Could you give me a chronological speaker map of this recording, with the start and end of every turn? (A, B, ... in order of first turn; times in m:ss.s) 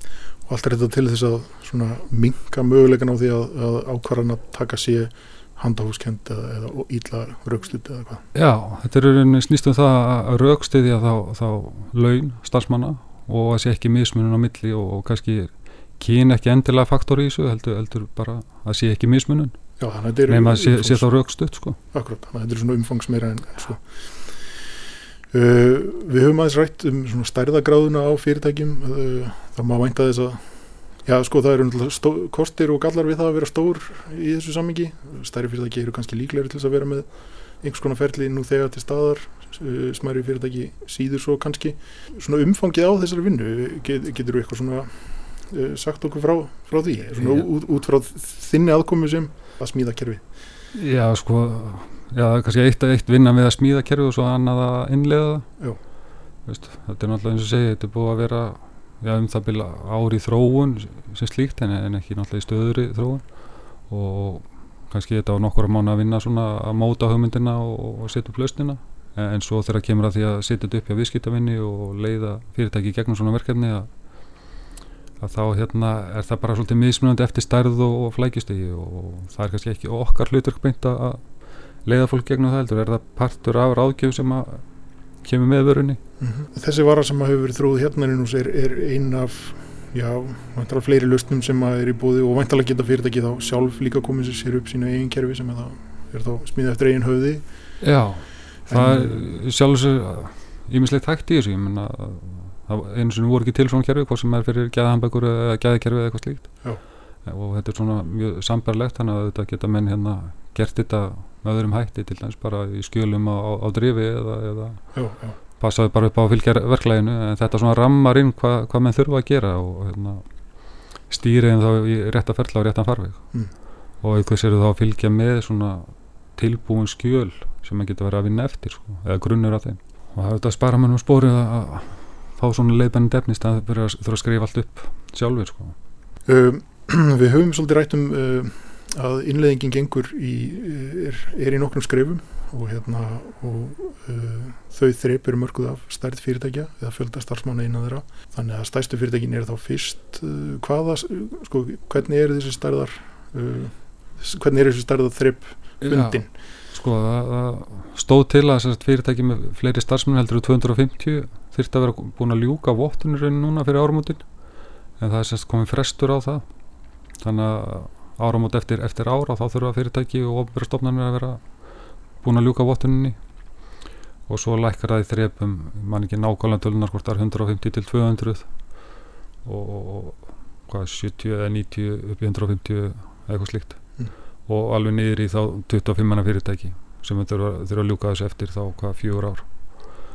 0:00.4-0:08.2 A
0:08.3-0:19.6 B
0:19.8-0:21.1 A
0:20.3-0:21.8 B
0:21.9-0:24.4 A
0:25.3-0:50.3 A
0:47.2-0:47.5 B
0:50.7-0:55.6 B
0:56.4-1:14.6 B
1:15.2-1:24.6 B
1:25.2-1:26.0 B
1:26.2-1:37.7 A
1:37.8-1:55.0 B
1:38.7-1:39.2 A
1:54.9-1:55.4 A
1:55.6-2:03.5 B
2:04.0-2:15.7 B
2:16.2-2:36.3 A
2:35.8-2:44.3 B
2:45.0-2:46.4 B
2:47.2-2:51.7 B
2:52.2-2:53.2 B
2:54.3-2:58.5 B
2:59.4-3:10.0 B